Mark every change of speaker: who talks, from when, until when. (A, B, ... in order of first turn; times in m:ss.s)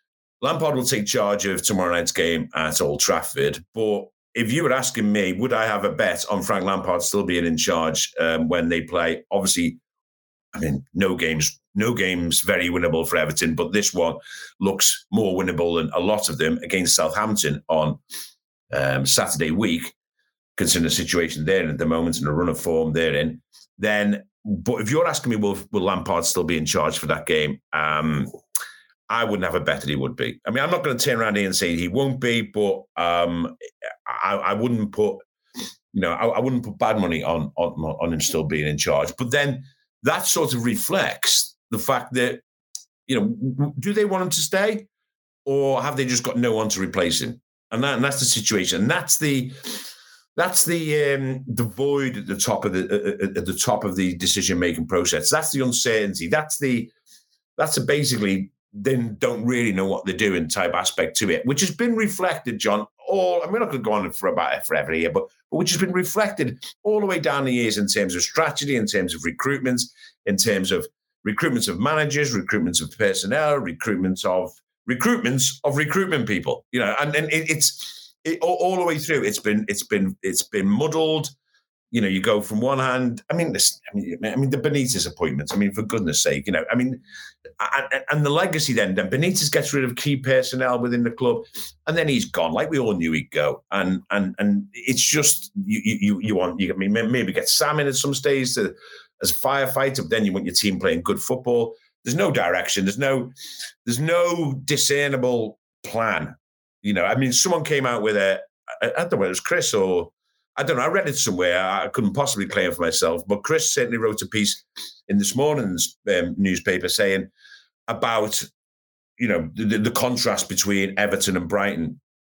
0:00.4-0:09.8 A
0:10.5-0:18.0 A
0:18.7-0:19.9 A
0:20.6-0:28.3 A
0:29.1-0:33.5 A
0:34.0-0:35.2 A
0:35.9-0:42.4 A
0:43.1-0:44.9 A
0:45.4-0:56.9 A
0:57.6-1:21.3 A
1:21.9-1:27.0 A
1:27.6-1:43.3 A
1:43.8-1:57.3 A
1:57.9-1:58.5 A
1:59.2-2:02.0 A